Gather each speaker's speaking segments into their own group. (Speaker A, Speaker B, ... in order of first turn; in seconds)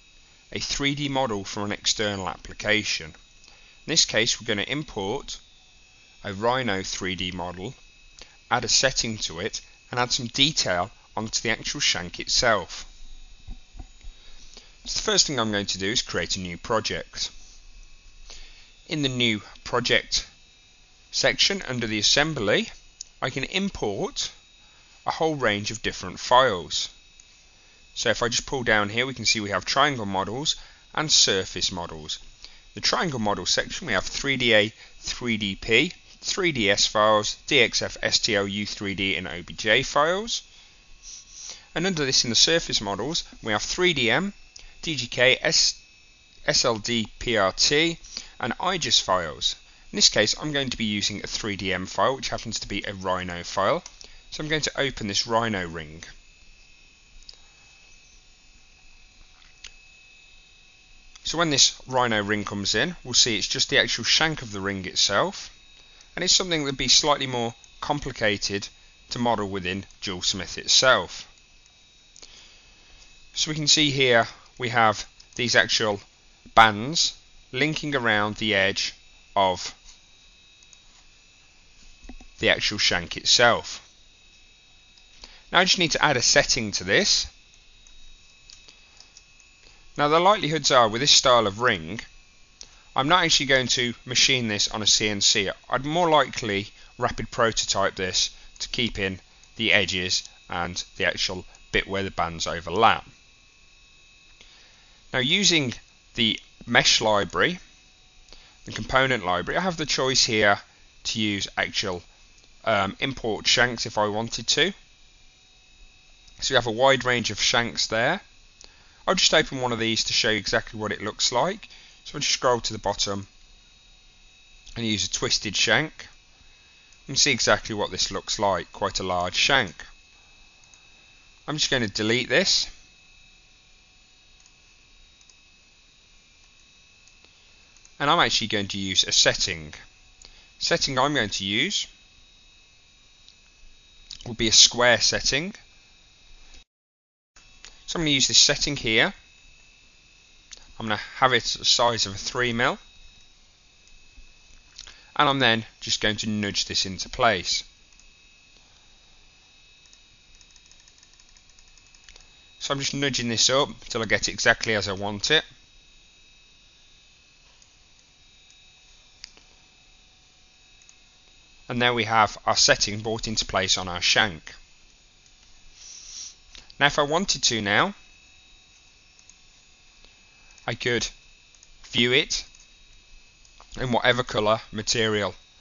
Speaker A: 0.5-3.2, 3.9-5.4, 6.2-7.8, 8.5-12.9, 14.8-17.3, 18.9-20.3, 21.1-24.3, 25.0-26.9, 27.9-32.2, 32.7-40.4, 41.7-45.8, 46.5-56.1, 61.2-65.5, 66.1-71.3, 73.3-76.0, 76.5-79.8, 82.4-83.8, 85.5-87.3, 90.0-92.1, 93.0-103.1, 105.1-107.6, 108.6-112.0, 112.6-114.7, 116.4-118.2, 119.1-123.3, 124.7-126.1, 127.1-129.8, 131.5-132.7, 138.0-139.8, 140.6-141.9, 144.2-145.6, 147.8-149.1, 150.8-152.8, 155.1-157.7, 162.6-165.4, 171.7-174.6, 176.8-177.9, 180.7-181.1, 181.8-182.5, 183.8-185.4